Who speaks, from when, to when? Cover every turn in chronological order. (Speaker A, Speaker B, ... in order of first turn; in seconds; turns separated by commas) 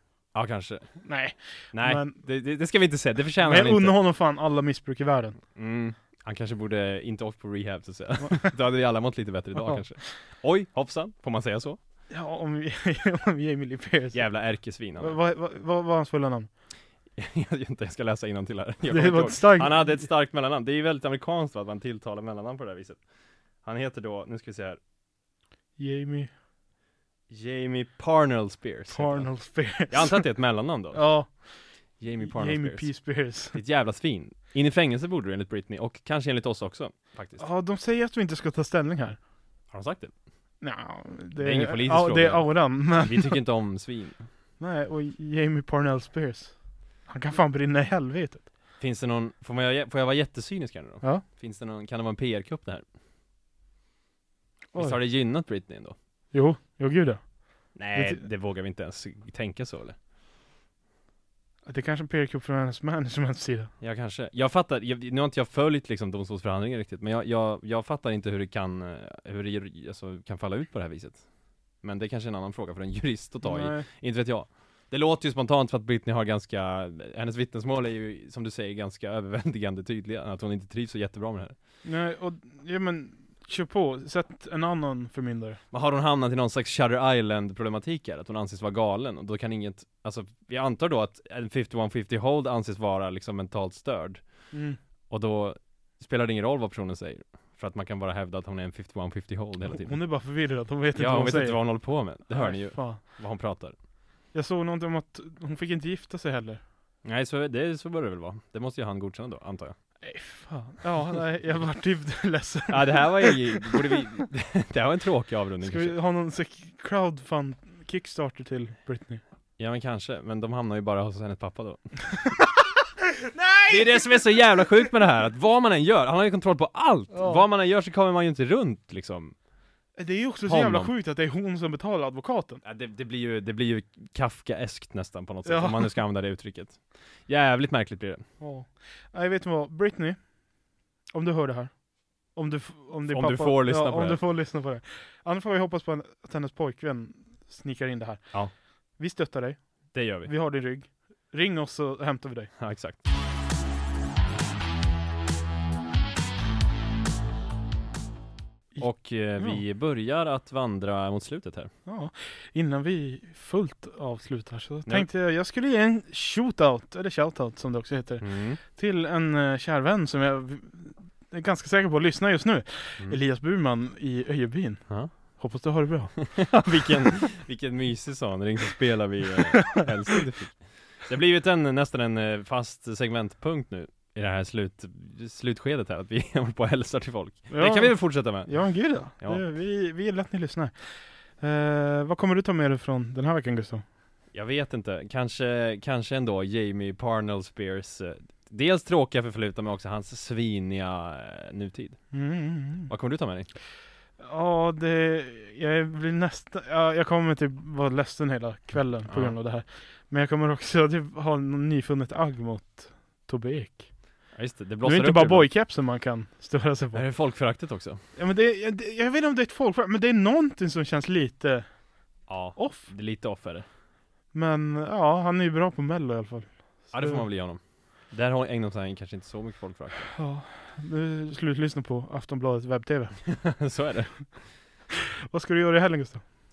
Speaker A: 0.3-1.1, Speaker B: 1.0-2.2, Speaker A: 1.7-4.0, Speaker B: 3.4-5.4, Speaker A: 5.5-11.8, Speaker B: 8.2-8.5, Speaker B: 9.5-10.0, Speaker B: 12.1-16.5, Speaker A: 14.1-15.2, Speaker A: 17.1-23.0, Speaker B: 18.9-20.1, Speaker A: 23.6-24.8, Speaker B: 25.8-26.3, Speaker A: 27.3-31.1, Speaker B: 28.9-30.3, Speaker B: 30.9-33.6, Speaker A: 32.0-37.4, Speaker B: 37.4-39.2, Speaker A: 39.7-40.1, Speaker B: 40.6-43.4, Speaker A: 41.4-44.2, Speaker B: 44.6-48.5, Speaker A: 48.8-52.8, Speaker B: 54.7-55.0, Speaker A: 54.7-55.9, Speaker B: 56.3-58.2, Speaker A: 57.7-60.0, Speaker B: 61.6-63.7, Speaker A: 63.8-71.3, Speaker A: 71.8-81.5, Speaker B: 73.4-73.8, Speaker B: 81.8-85.6, Speaker A: 85.7-94.5, Speaker B: 94.5-94.8, Speaker A: 95.1-100.2, Speaker B: 99.7-103.0, Speaker A: 100.9-103.8, Speaker B: 104.3-106.6, Speaker A: 107.0-109.7, Speaker B: 110.0-113.9, Speaker A: 112.7-116.0, Speaker B: 115.6-119.2, Speaker A: 119.6-121.9, Speaker B: 123.2-124.2, Speaker A: 123.7-129.3, Speaker B: 127.1-127.4, Speaker B: 130.0-132.6, Speaker A: 130.4-130.9, Speaker A: 132.6-138.2, Speaker B: 135.4-135.9, Speaker B: 138.4-140.3, Speaker B: 141.1-152.5, Speaker A: 143.1-144.2, Speaker A: 149.9-150.3, Speaker A: 152.6-153.0, Speaker B: 158.7-159.6, Speaker A: 158.8-161.7, Speaker B: 161.8-176.7, Speaker A: 168.2-168.6, Speaker A: 176.2-189.4, Speaker B: 187.5-193.8, Speaker A: 194.3-202.1, Speaker B: 202.1-202.9, Speaker A: 202.9-203.5, Speaker B: 204.2-213.9, Speaker A: 209.1-209.3, Speaker A: 214.3-215.5, Speaker B: 214.8-217.0, Speaker A: 216.9-218.0, Speaker B: 218.2-222.9, Speaker A: 222.3-223.6, Speaker B: 224.3-227.2, Speaker A: 226.9-230.1, Speaker B: 230.1-233.2, Speaker A: 233.3-234.2, Speaker B: 235.3-236.2